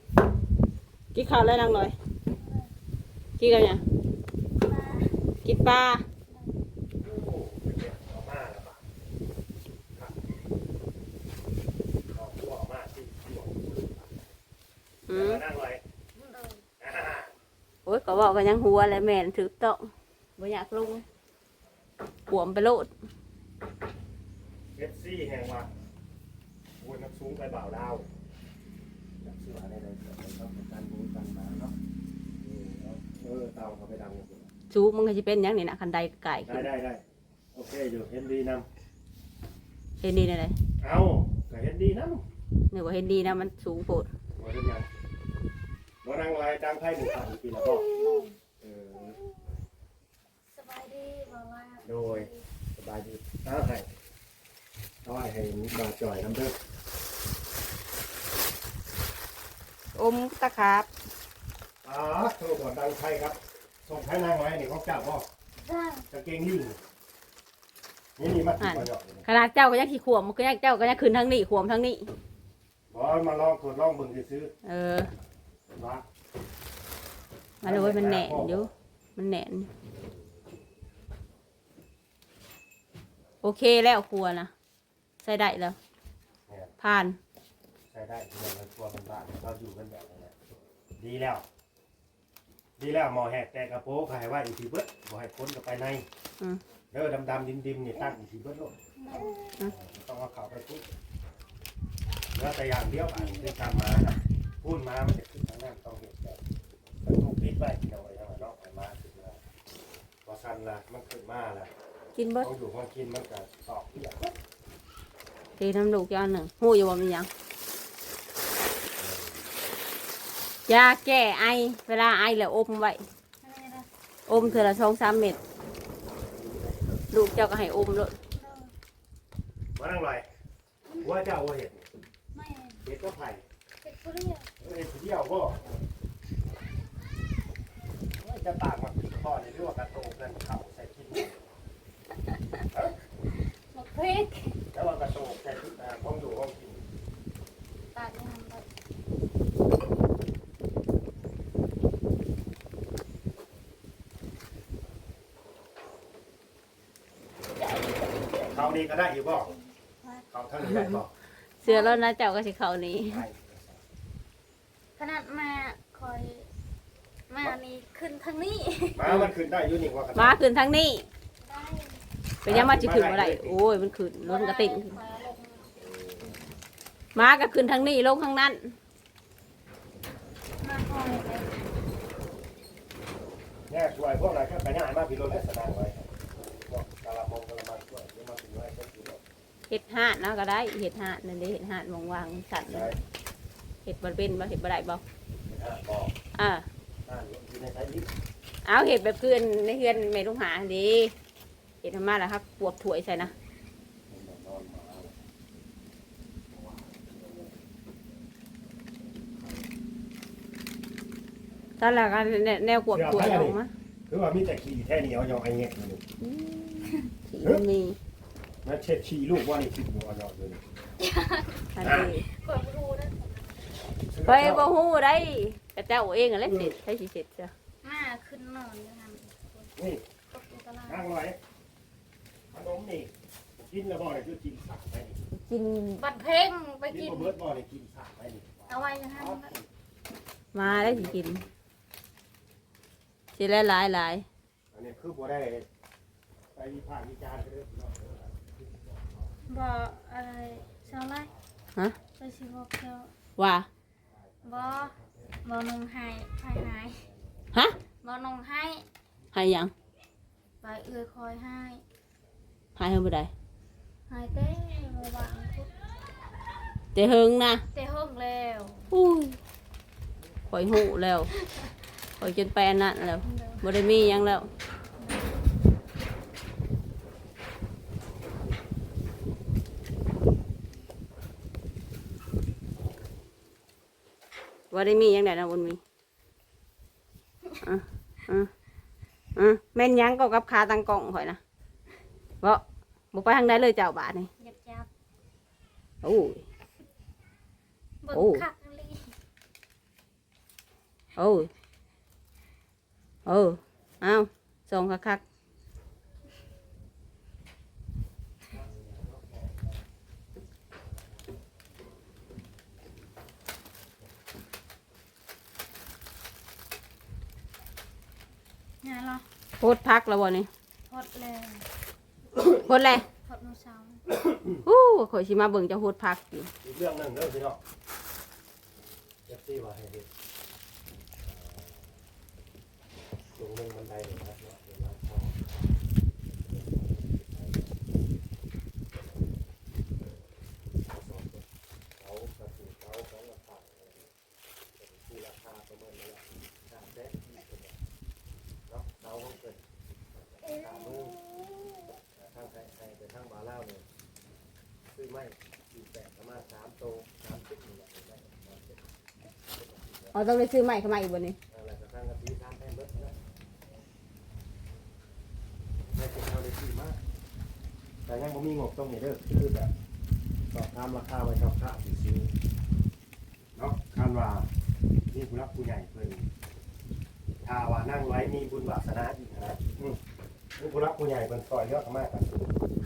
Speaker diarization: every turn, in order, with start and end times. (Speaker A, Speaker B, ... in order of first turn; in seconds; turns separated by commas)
Speaker A: 1.1-1.9, Speaker B: 2.3-2.7, Speaker A: 3.4-3.8, Speaker B: 4.6-5.2, Speaker A: 5.4-6.0, Speaker B: 6.3-6.5, Speaker C: 7.0-8.9, Speaker C: 9.9-10.2, Speaker C: 12.1-14.2, Speaker A: 15.1-15.4, Speaker C: 15.1-15.8, Speaker B: 16.1-16.6, Speaker C: 16.8-17.3, Speaker A: 17.9-21.1, Speaker A: 22.3-22.9, Speaker C: 24.8-25.7, Speaker C: 26.8-28.1, Speaker C: 29.2-31.8, Speaker C: 32.4-34.5, Speaker A: 34.7-36.7, Speaker C: 36.5-37.0, Speaker C: 37.5-38.7, Speaker A: 40.0-40.5, Speaker C: 40.8-42.2, Speaker A: 42.7-44.1, Speaker C: 44.4-44.9, Speaker C: 46.0-47.9, Speaker B: 47.9-48.4, Speaker C: 48.6-49.2, Speaker B: 50.5-52.4, Speaker C: 51.8-53.9, Speaker C: 55.0-56.6, Speaker A: 59.9-60.9, Speaker C: 61.8-65.3, Speaker B: 65.6-66.1, Speaker C: 66.1-66.8, Speaker C: 68.2-69.2, Speaker A: 68.6-72.1, Speaker C: 72.9-74.5, Speaker A: 74.6-75.1, Speaker C: 75.7-76.0, Speaker C: 77.6-78.7, Speaker A: 77.6-79.7, Speaker A: 83.4-84.5, Speaker A: 85.2-85.8, Speaker C: 86.5-86.7, Speaker A: 86.8-87.2, Speaker C: 87.9-90.3, Speaker C: 91.0-91.5, Speaker C: 92.8-96.0, Speaker C: 96.9-98.8, Speaker B: 99.0-99.4, Speaker C: 99.7-100.9, Speaker C: 102.3-106.4, Speaker B: 103.3-104.0, Speaker C: 107.0-109.4, Speaker C: 110.2-111.7, Speaker A: 112.2-112.5, Speaker C: 112.4-114.3, Speaker A: 115.6-117.3, Speaker C: 119.0-119.5, Speaker A: 120.7-123.0, Speaker B: 123.4-123.9, Speaker A: 124.3-125.4, Speaker C: 124.3-124.7, Speaker C: 126.4-127.0, Speaker A: 127.1-128.1, Speaker B: 128.3-128.7, Speaker C: 129.8-130.2, Speaker C: 131.0-131.8, Speaker B: 132.3-132.8, Speaker C: 132.8-133.4, Speaker B: 133.8-134.5, Speaker C: 134.6-135.7, Speaker C: 138.2-141.3, Speaker C: 142.7-143.0, Speaker B: 143.3-144.6, Speaker C: 144.7-146.8, Speaker B: 147.9-148.6, Speaker B: 157.6-158.8, Speaker C: 158.4-159.5, Speaker C: 160.3-161.1, Speaker A: 161.6-163.2, Speaker B: 161.6-162.0, Speaker C: 163.1-163.8, Speaker B: 165.0-166.5, Speaker B: 167.3-169.2, Speaker C: 168.9-170.4, Speaker A: 170.1-171.1, Speaker B: 171.4-172.0, Speaker A: 172.4-175.0, Speaker C: 172.4-173.6, Speaker B: 174.2-175.7, Speaker C: 175.8-176.4, Speaker A: 177.1-178.7, Speaker B: 177.2-177.4, Speaker B: 180.6-181.7, Speaker C: 183.7-186.1, Speaker C: 186.6-189.2, Speaker A: 189.7-192.9, Speaker C: 192.7-193.0, Speaker A: 193.8-195.0, Speaker C: 195.4-196.2, Speaker A: 196.3-196.7, Speaker C: 197.1-198.1, Speaker A: 198.6-201.1, Speaker A: 201.8-203.3, Speaker C: 204.1-205.2, Speaker C: 206.5-207.6, Speaker C: 209.2-209.7, Speaker A: 211.8-213.7, Speaker C: 212.9-213.6, Speaker C: 214.1-216.0, Speaker A: 216.2-218.0, Speaker C: 218.6-220.6, Speaker B: 221.0-221.7, Speaker A: 221.7-222.2, Speaker C: 221.8-222.1, Speaker B: 222.2-223.8, Speaker C: 224.1-224.7, Speaker A: 224.2-227.5, Speaker C: 226.4-226.7, Speaker B: 227.8-229.7, Speaker C: 229.8-230.0, Speaker B: 230.3-231.0, Speaker C: 230.9-231.4, Speaker C: 232.5-235.2, Speaker A: 235.3-236.0, Speaker B: 236.0-237.3, Speaker C: 236.9-239.7, Speaker B: 238.7-239.5, Speaker A: 240.5-241.4, Speaker C: 240.6-241.5, Speaker A: 243.3-244.2, Speaker C: 244.7-245.7, Speaker C: 246.5-249.3, Speaker B: 249.5-251.3, Speaker B: 252.2-253.1, Speaker A: 253.3-253.7, Speaker C: 254.1-255.3, Speaker B: 254.4-257.0, Speaker B: 258.0-258.8, Speaker A: 259.3-259.7, Speaker B: 260.6-261.8, Speaker A: 262.8-263.3, Speaker B: 264.1-265.7, Speaker A: 266.9-267.6, Speaker B: 267.7-268.9, Speaker A: 268.9-269.4, Speaker A: 270.5-271.3, Speaker B: 271.4-271.8, Speaker A: 272.2-274.5, Speaker B: 273.2-273.6, Speaker B: 275.0-275.4, Speaker A: 284.7-285.8, Speaker A: 287.6-288.5, Speaker A: 289.4-291.4, Speaker A: 292.4-294.3, Speaker B: 294.4-294.9, Speaker A: 296.0-296.4, Speaker B: 298.0-299.1, Speaker A: 298.1-298.4, Speaker A: 301.1-301.5, Speaker A: 303.2-305.2, Speaker C: 308.5-309.7, Speaker B: 318.8-319.2, Speaker A: 319.6-320.5, Speaker B: 320.9-321.6, Speaker A: 322.6-323.1, Speaker B: 323.1-324.0, Speaker C: 324.1-324.6, Speaker A: 324.6-326.5, Speaker C: 326.6-327.6, Speaker C: 329.3-330.1, Speaker C: 331.2-332.0, Speaker C: 333.3-335.4, Speaker C: 336.5-337.8, Speaker C: 340.8-341.4, Speaker C: 342.0-344.1, Speaker C: 344.8-347.8, Speaker C: 348.7-351.2, Speaker C: 352.1-353.9, Speaker C: 354.9-358.9, Speaker C: 359.4-360.2, Speaker A: 360.1-361.4, Speaker C: 361.5-363.2, Speaker C: 365.9-367.0, Speaker C: 368.1-369.7, Speaker C: 370.5-372.3, Speaker C: 373.6-374.5, Speaker C: 375.1-376.3, Speaker C: 377.4-380.0, Speaker C: 380.6-382.5